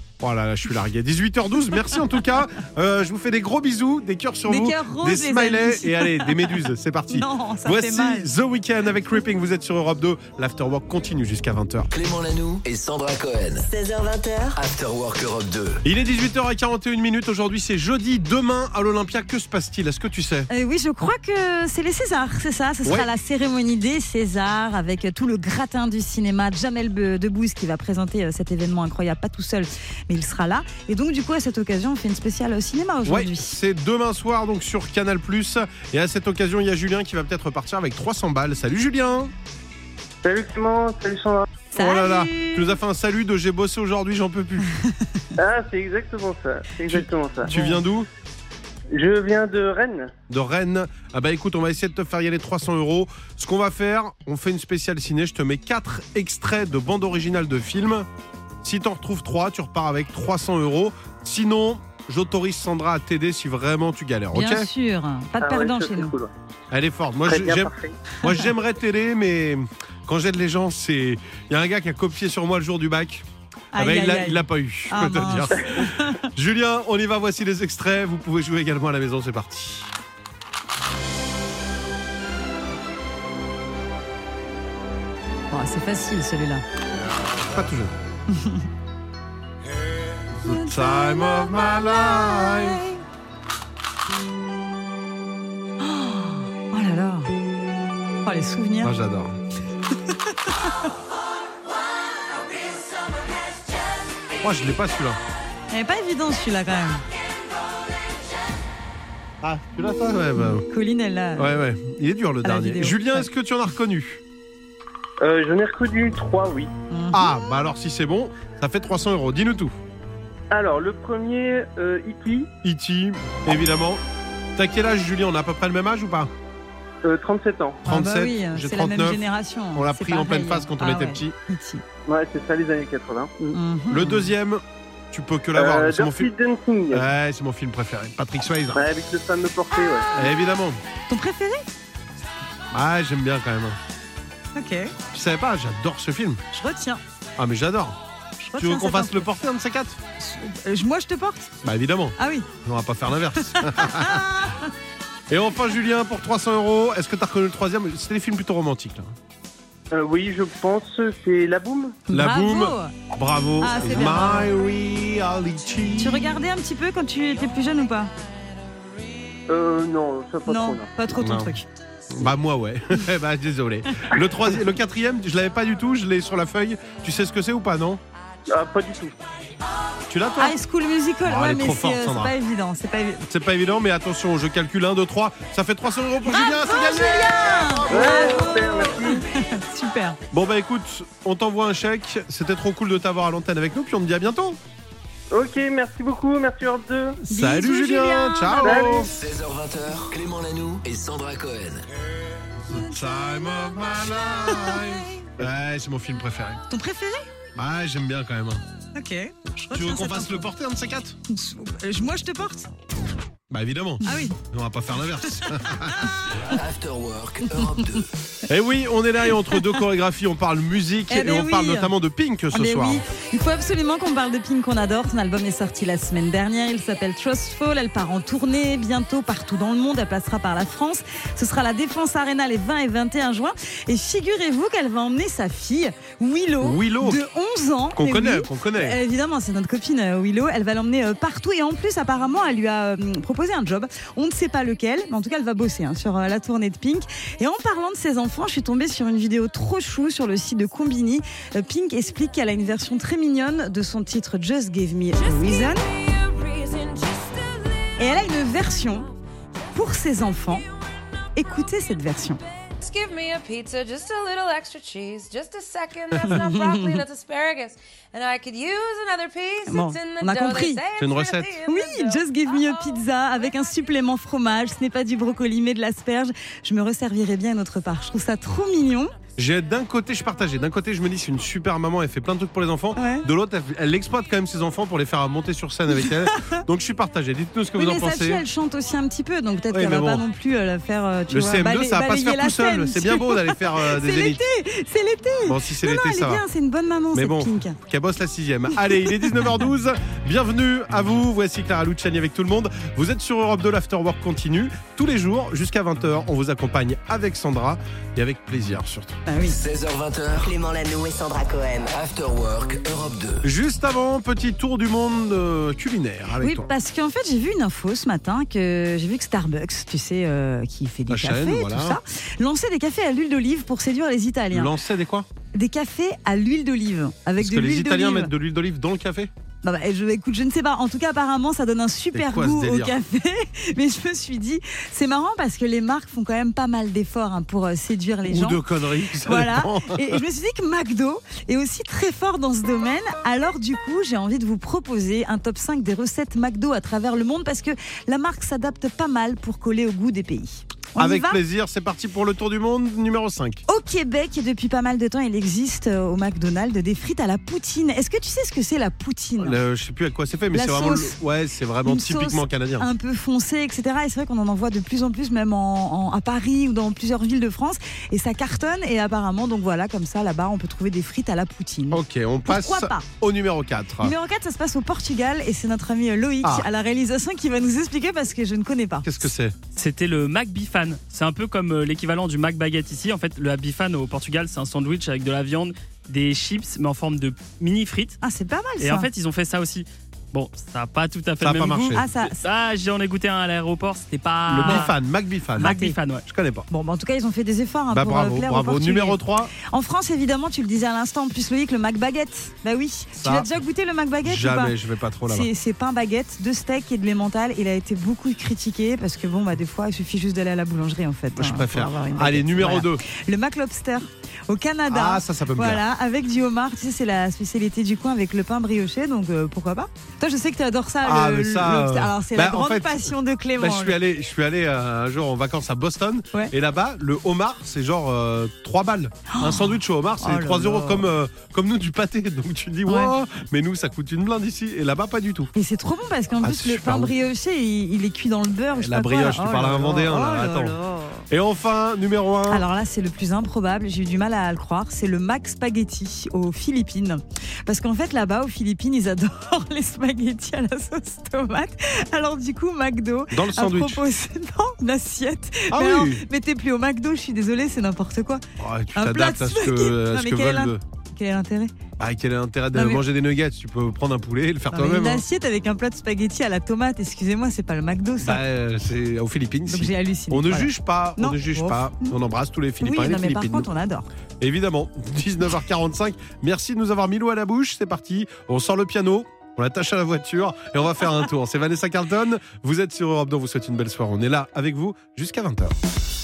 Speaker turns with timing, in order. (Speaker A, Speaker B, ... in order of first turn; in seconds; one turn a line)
Speaker A: 0.2-11.9
Speaker B: 4.5-8.3
Speaker C: 11.9-13.7
Speaker D: 13.6-14.6
Speaker C: 14.5-15.8
Speaker A: 15.8-20.5
Speaker B: 20.5-33.6
Speaker A: 33.0-39.3
Speaker E: 40.2-41.5
Speaker B: 41.7-42.8
Speaker A: 41.7-44.7
Speaker E: 45.4-47.5
Speaker A: 46.9-48.1
Speaker B: 47.4-47.8
Speaker E: 48.9-50.1
Speaker A: 50.3-58.1
Speaker A: 58.6-64.7
Speaker B: 64.3-66.1
Speaker E: 65.4-66.3
Speaker A: 66.7-79.9
Speaker E: 67.2-68.0
Speaker B: 73.7-76.2
Speaker B: 85.5-86.6
Speaker A: 87.4-87.9
Speaker B: 88.3-88.7
Speaker A: 90.4-92.8
Speaker B: 90.4-93.0
Speaker B: 95.8-97.3
Speaker B: 98.2-98.9
Speaker A: 98.8-99.3
Speaker B: 100.1-100.7
Speaker A: 104.4-105.2
Speaker B: 105.7-107.0
Speaker A: 109.4-110.6
Speaker B: 110.7-111.5
Speaker A: 111.3-114.2
Speaker B: 112.4-113.3
Speaker E: 115.2-116.7
Speaker B: 116.9-117.3
Speaker A: 117.1-119.7
Speaker E: 120.5-122.5
Speaker A: 122.6-124.0
Speaker A: 124.5-126.3
Speaker E: 127.0-127.8
Speaker A: 127.8-131.3
Speaker B: 127.8-131.8
Speaker E: 132.1-133.6
Speaker B: 133.5-134.3
Speaker A: 133.9-136.3
Speaker E: 135.6-137.0
Speaker A: 136.9-138.8
Speaker E: 138.7-140.1
Speaker A: 140.1-140.8
Speaker B: 141.1-141.7
Speaker A: 142.7-143.8
Speaker B: 144.6-144.9
Speaker A: 145.1-146.4
Speaker B: 146.5-147.0
Speaker A: 147.4-148.0
Speaker B: 148.4-149.3
Speaker A: 148.6-150.0
Speaker B: 150.2-151.5
Speaker A: 151.6-154.4
Speaker B: 152.2-152.5
Speaker B: 153.3-154.7
Speaker A: 155.3-159.1
Speaker E: 159.9-162.0
Speaker B: 162.1-162.9
Speaker A: 162.1-166.3
Speaker B: 163.6-164.5
Speaker B: 166.0-168.1
Speaker E: 169.5-170.9
Speaker B: 170.5-171.7
Speaker A: 171.2-171.5
Speaker A: 172.1-178.0
Speaker E: 178.5-179.1
Speaker A: 180.1-180.6
Speaker B: 180.4-183.2
Speaker A: 181.2-182.3
Speaker A: 183.3-188.6
Speaker B: 186.2-190.2
Speaker E: 187.9-189.2
Speaker A: 190.3-194.6
Speaker E: 195.3-197.2
Speaker A: 197.2-199.1
Speaker B: 197.3-199.1
Speaker E: 198.6-199.1
Speaker C: 199.1-201.8
Speaker A: 202.7-206.6
Speaker B: 204.5-204.8
Speaker B: 206.7-207.3
Speaker A: 207.6-208.6
Speaker B: 208.9-210.5
Speaker A: 209.7-211.2
Speaker B: 211.3-212.7
Speaker A: 213.5-216.1
Speaker B: 214.0-214.3
Speaker C: 216.3-218.1
Speaker A: 218.5-223.0
Speaker B: 221.1-221.9
Speaker B: 222.5-255.9
Speaker A: 236.6-237.2
Speaker A: 237.9-239.0
Speaker F: 255.2-257.9
Speaker B: 258.0-259.1
Speaker B: 259.7-260.6
Speaker B: 261.3-262.4
Speaker F: 262.8-272.9
Speaker B: 266.2-267.0
Speaker B: 269.7-270.8
Speaker A: 271.0-271.6
Speaker B: 271.6-279.1
Speaker A: 279.4-288.4
Speaker B: 282.9-283.2
Speaker B: 285.9-286.6
Speaker B: 287.8-297.8
Speaker A: 289.7-290.2
Speaker A: 291.3-294.4
Speaker A: 295.4-296.4
Speaker A: 297.1-309.2
Speaker B: 298.9-299.5
Speaker B: 309.3-309.6
Speaker C: 309.4-310.5
Speaker D: 310.4-311.9
Speaker C: 311.9-313.4
Speaker A: 313.4-316.7
Speaker B: 316.4-324.7
Speaker A: 321.1-322.0
Speaker A: 324.5-325.3
Speaker B: 325.5-328.3
Speaker A: 327.4-329.3
Speaker B: 329.6-338.6
Speaker A: 332.1-332.9
Speaker A: 338.2-340.2
Speaker B: 339.2-351.4
Speaker A: 351.0-353.6
Speaker B: 353.7-359.6
Speaker A: 359.4-362.9
Speaker B: 360.5-361.1
Speaker B: 361.8-373.1
Speaker A: 371.9-374.1
Speaker B: 374.0-379.1
Speaker A: 379.0-379.5
Speaker G: 379.7-388.2
Speaker B: 388.2-389.1
Speaker G: 388.8-394.9
Speaker A: 391.4-392.1
Speaker B: 391.9-392.4
Speaker A: 394.5-396.7
Speaker B: 394.6-394.9
Speaker G: 395.6-396.2
Speaker B: 395.6-396.0
Speaker B: 396.7-404.7
Speaker A: 397.9-399.5
Speaker A: 403.2-403.5
Speaker A: 404.2-405.5
Speaker B: 405.3-424.0
Speaker A: 411.3-413.0
Speaker A: 414.9-415.8
Speaker A: 421.0-435.5
Speaker B: 429.3-431.1
Speaker B: 432.9-433.1
Speaker B: 435.5-441.3
Speaker A: 436.4-437.1
Speaker A: 438.7-440.7
Speaker A: 441.3-442.6
Speaker B: 442.5-458.4
Speaker A: 453.3-454.0
Speaker A: 455.7-456.2
Speaker A: 458.6-460.8
Speaker B: 458.9-461.7
Speaker A: 462.0-465.2
Speaker B: 462.7-463.0
Speaker B: 464.7-468.4
Speaker A: 468.2-473.7
Speaker B: 469.7-472.1
Speaker B: 472.8-474.1
Speaker A: 474.4-485.7